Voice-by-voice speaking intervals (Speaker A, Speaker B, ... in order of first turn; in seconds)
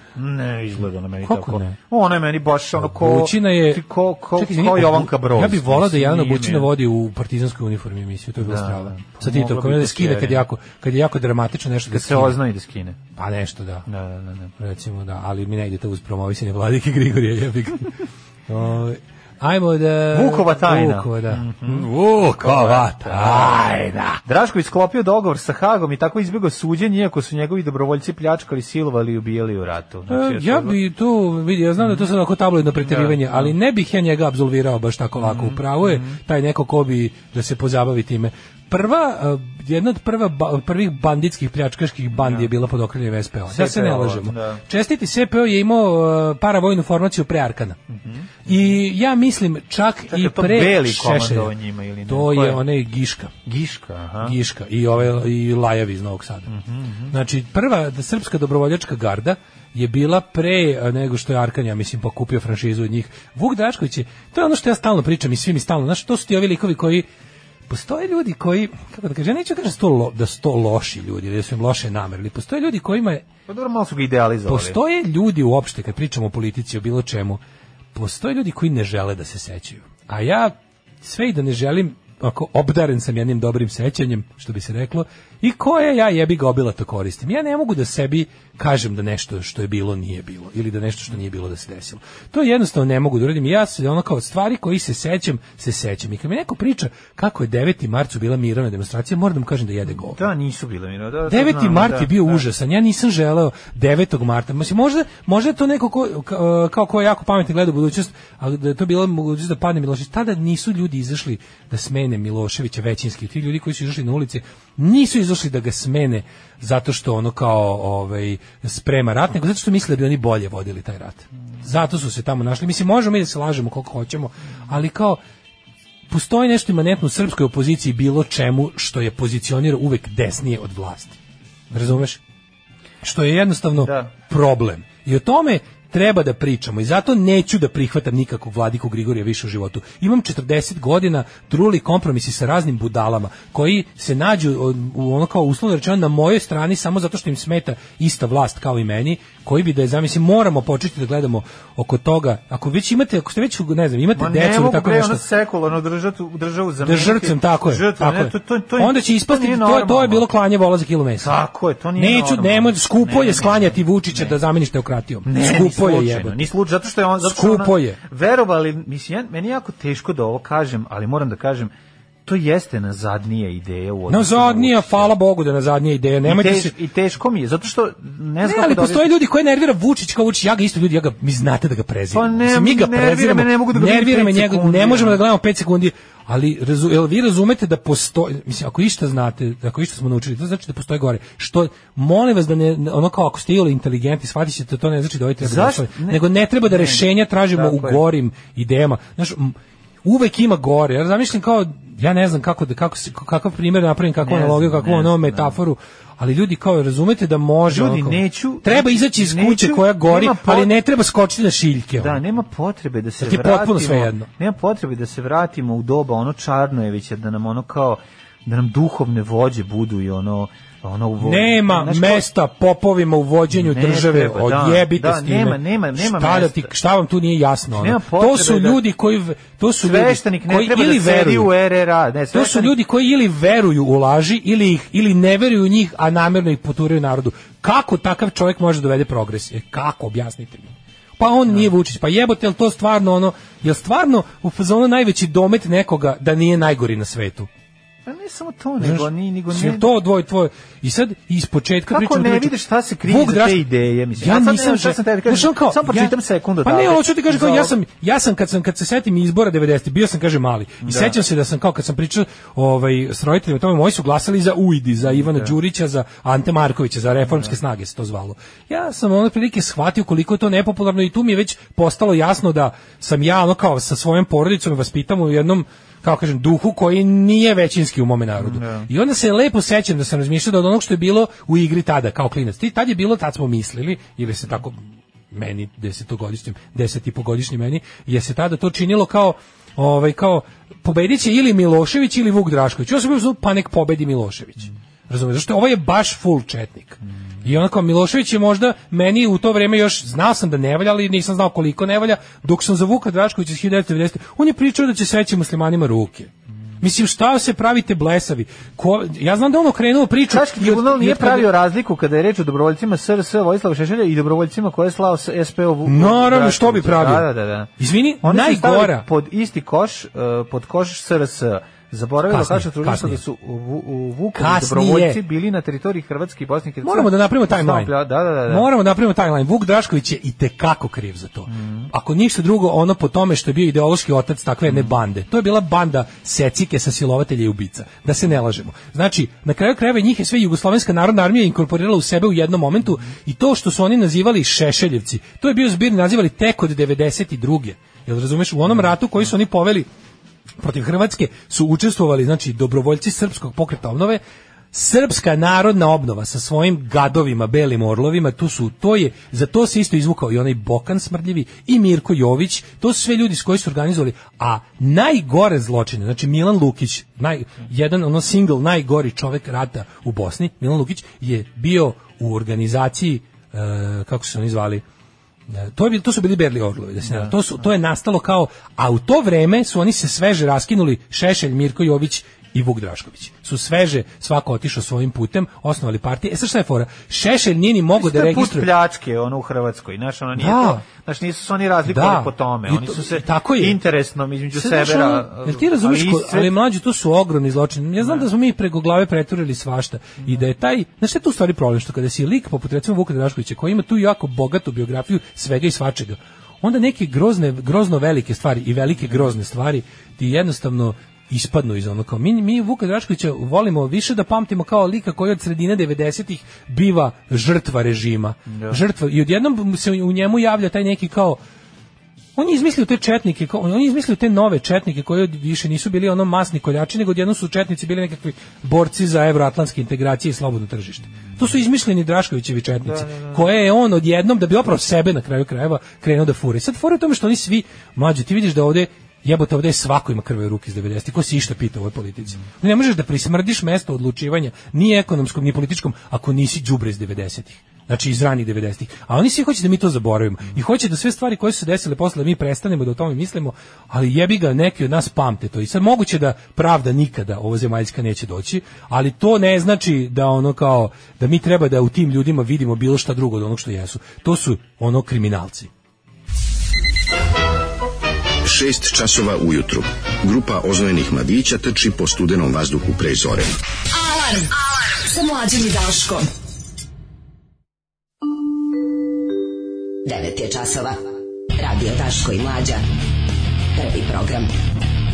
Speaker A: 0.1-6.7, 8.4-10.4, 11.9-13.0, 13.9-14.5, 20.1-23.7, 24.2-30.8, 31.8-32.1, 32.8-33.5, 35.2-36.2, 42.1-42.5, 43.5-44.6, 47.9-48.8, 50.1-52.6, 53.5-54.4, 56.5-57.1, 73.5-74.8, 99.9-102.5, 133.8-134.1, 154.2-160.3, 161.2-164.4, 165.2-171.7, 172.3-175.1, 176.2-179.1, 182.1-185.2, 195.4-198.0, 204.2-205.6, 207.7-210.7, 212.0-222.3, 223.5-226.7, 227.8-228.8, 229.8-232.7, 248.1-249.9, 251.9-257.7, 260.8-261.2, 265.1-265.6, 278.4-278.9, 310.3-328.7, 331.5-331.9, 377.1-377.3, 388.0-396.5, 398.0-398.3, 418.5-418.8, 432.9-433.4
Speaker B: 1.2-1.8, 2.8-3.8, 4.4-12.4, 13.2-13.9, 14.6-24.2, 30.1-47.8, 48.5-51.5, 52.1-53.3, 54.2-56.5, 57.1-67.1, 67.7-73.3, 74.5-77.4, 77.9-100.2, 101.3-125.2, 126.1-131.2, 131.7-132.2, 133.0-155.2, 156.8-161.4, 162.0-166.5, 167.2-168.0, 174.1-176.7, 178.4-212.2, 213.2-214.3, 221.2-231.5, 232.3-247.5, 248.8-253.7, 254.2-284.8, 285.3-311.5, 315.9-319.1, 322.3-323.2, 324.4-325.2, 326.8-327.9, 328.5-349.9, 350.6-354.2, 354.7-374.8, 375.5-388.7, 390.4-390.8, 391.9-393.8, 394.5-421.4, 422.4-465.7
Speaker C: 468.4-473.5
Speaker D: 473.9-476.3
Speaker E: 480.1-481.0, 481.6-482.8, 483.7-484.5